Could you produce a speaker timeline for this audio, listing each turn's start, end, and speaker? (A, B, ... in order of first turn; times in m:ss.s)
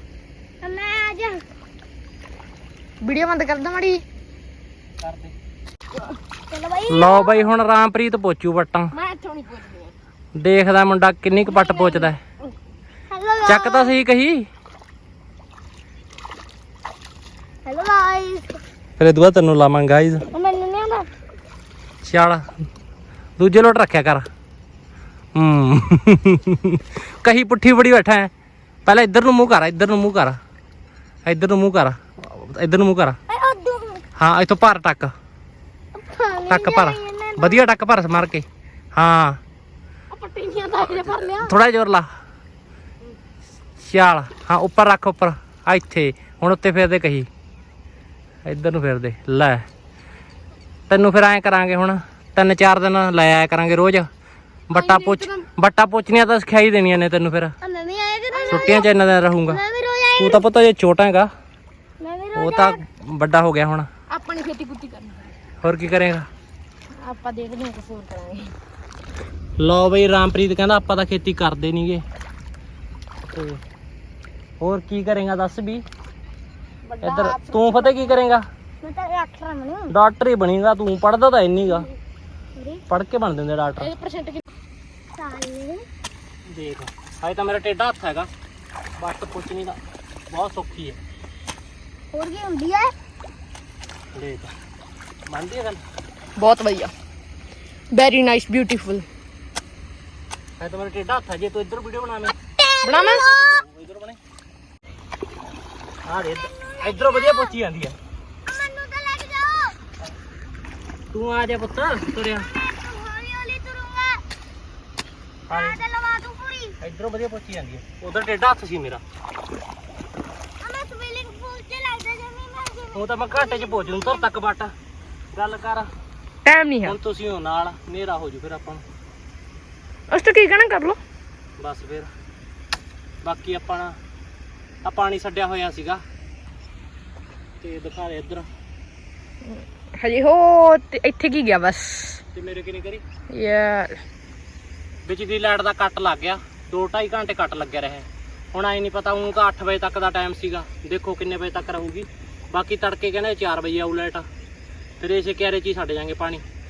0:00.6-0:01.4 A
0:03.0-0:04.0 B
0:05.0-0:05.4 C
0:06.5-0:07.5 A
0:06.9-0:08.9 C
0:08.9-0:09.9 B
0:10.4-0:12.2 C
0:11.5-0:12.1 A
0:13.1-0:13.9 A
0:13.5-0:14.5 C
0:17.7-0:18.6 A
0:19.0-0:20.3 C
0:20.3-0:21.1 A
0:22.0-0:22.4 C
0:23.4-0:24.2 C
0:25.4-0:28.3 C
0:28.9-0:30.4 C
0:31.2-0:33.2 C
0:33.3-0:34.0 A
0:34.2-0:35.1 C
0:35.9-0:37.7 A
0:36.5-0:39.4 C
0:40.2-0:41.4 B
0:40.8-0:41.4 A
0:41.4-0:42.1 C
0:43.8-0:47.3 C
0:48.5-0:49.7 C
0:50.9-0:54.1 C
0:54.7-0:57.5 C
0:54.7-0:55.4 B
0:57.6-0:58.9 A
0:58.3-0:58.6 B
0:58.5-0:59.6 C
0:59.5-1:00.4 A
1:00.2-1:01.3 C
1:02.0-1:02.8 A
1:02.4-1:03.9 C
1:04.1-1:05.3 B
1:05.6-1:06.3 C
1:07.0-1:08.5 B
1:09.6-1:12.0 C
1:13.2-1:13.6 C
1:14.6-1:15.8 C
1:16.9-1:18.2 B
1:17.0-1:18.4 C
1:18.8-1:19.9 A
1:19.9-1:21.9 C
1:22.6-1:22.8 A
1:22.9-1:23.9 C
1:23.8-1:24.4 B
1:25.2-1:25.9 A
1:26.5-1:28.3 C
1:29.0-1:31.0 C
1:32.1-1:32.9 A
1:34.2-1:34.5 C
1:35.3-1:35.8 C
1:36.4-1:36.9 B
1:37.9-1:39.1 B
1:40.6-1:42.4 C
1:42.5-1:43.6 A
1:42.8-1:43.3 B
1:43.0-1:44.2 C
1:46.1-1:48.0 C
1:46.4-1:47.6 A
1:48.5-1:49.8 A
1:51.1-1:52.5 C
1:52.5-1:54.2 A
1:55.5-1:56.8 A
1:55.5-1:55.8 C
1:56.8-1:59.0 C
2:00.6-2:04.3 A
2:02.9-2:04.7 C
2:05.4-2:05.9 C
2:06.4-2:07.0 B
2:06.8-2:08.8 C
2:10.1-2:11.0 B
2:11.6-2:12.1 C
2:13.2-2:13.9 C
2:14.8-2:16.0 C
2:17.6-2:18.5 C
2:19.5-2:22.2 B
2:22.3-2:23.0 C
2:23.3-2:24.0 B
2:25.1-2:34.2 C
2:35.0-2:36.4 C